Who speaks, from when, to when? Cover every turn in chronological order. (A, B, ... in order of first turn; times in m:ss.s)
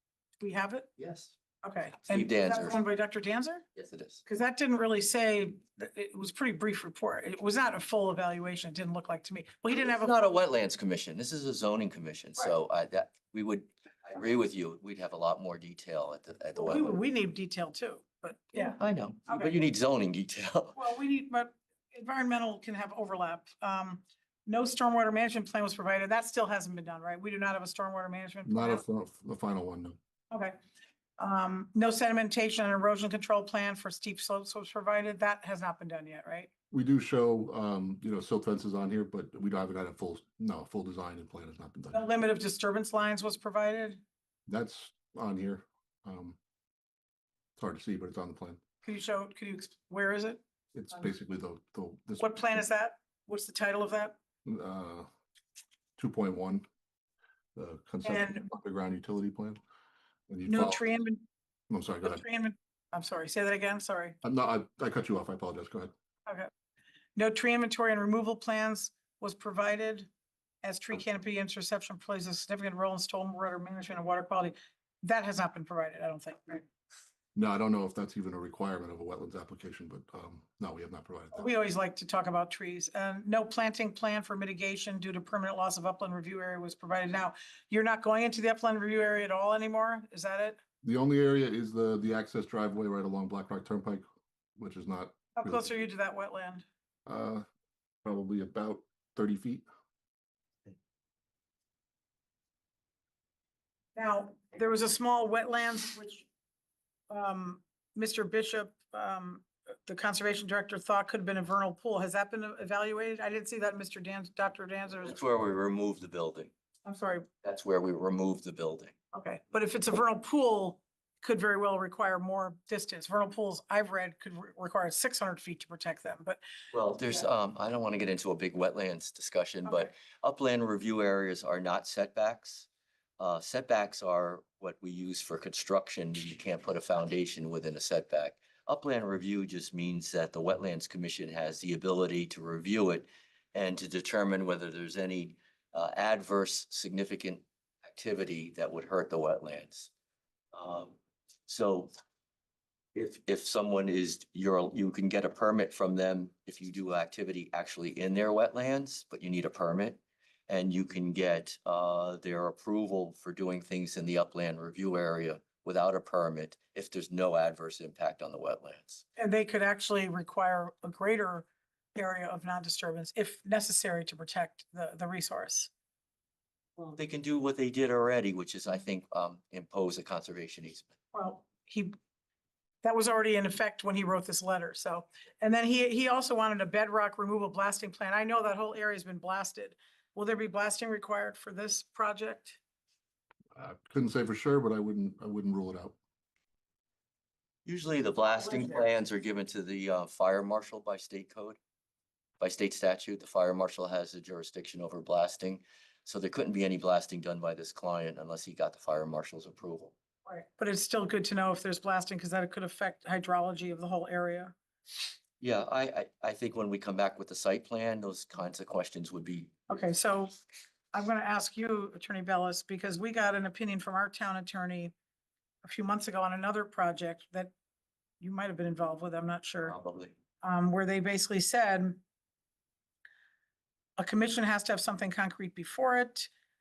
0:00.4-0:00.9 A
0:01.0-0:01.3 B
0:01.6-0:03.6 A
0:02.1-0:02.8 B
0:03.8-0:04.2 B
0:04.2-0:10.1 A
0:09.7-0:17.0 B
0:16.6-0:19.5 A
0:18.6-0:20.8 B
0:20.7-0:28.8 A
0:28.4-0:30.0 C
0:30.3-0:30.6 A
0:31.2-0:36.5 A
0:36.7-0:42.0 C
0:41.9-0:44.0 A
0:44.5-0:46.4 C
0:47.6-0:48.6 C
0:48.8-0:50.4 A
0:50.7-0:52.4 C
0:52.2-0:54.1 A
0:54.4-0:55.1 C
0:56.0-0:56.6 C
0:57.6-0:59.6 C
0:58.0-0:58.4 A
1:00.3-1:00.9 C
1:00.5-1:01.2 A
1:01.7-1:02.2 C
1:02.0-1:04.2 A
1:04.2-1:05.9 C
1:07.2-1:10.1 A
1:10.6-1:16.6 A
1:17.3-1:21.4 C
1:21.3-1:30.6 A
1:30.8-1:34.0 C
1:34.6-1:35.7 C
1:35.4-1:36.6 A
1:37.0-1:37.4 C
1:38.0-1:39.6 C
1:43.9-1:46.3 A
1:47.1-1:55.2 A
1:55.0-1:56.5 B
1:56.8-1:57.3 A
1:57.4-1:58.9 B
1:59.1-2:06.4 A
2:06.7-2:12.7 B
2:09.6-2:09.9 A
2:13.2-2:29.9 B
2:30.5-2:31.9 B
2:32.9-2:49.0 B
2:49.2-2:55.7 A
2:56.9-3:00.9 B
3:01.1-3:02.0 A
3:02.8-3:12.6 A
3:13.5-3:16.0 C
3:17.6-3:21.6 B
3:22.4-3:29.9 B
3:30.2-3:34.6 A
3:35.4-3:39.5 B
3:39.7-3:40.3 A
3:40.9-3:44.9 A
3:45.6-3:47.5 A
3:48.2-3:49.8 A
3:49.6-3:50.1 B
3:50.4-3:52.0 A
3:54.0-3:56.3 A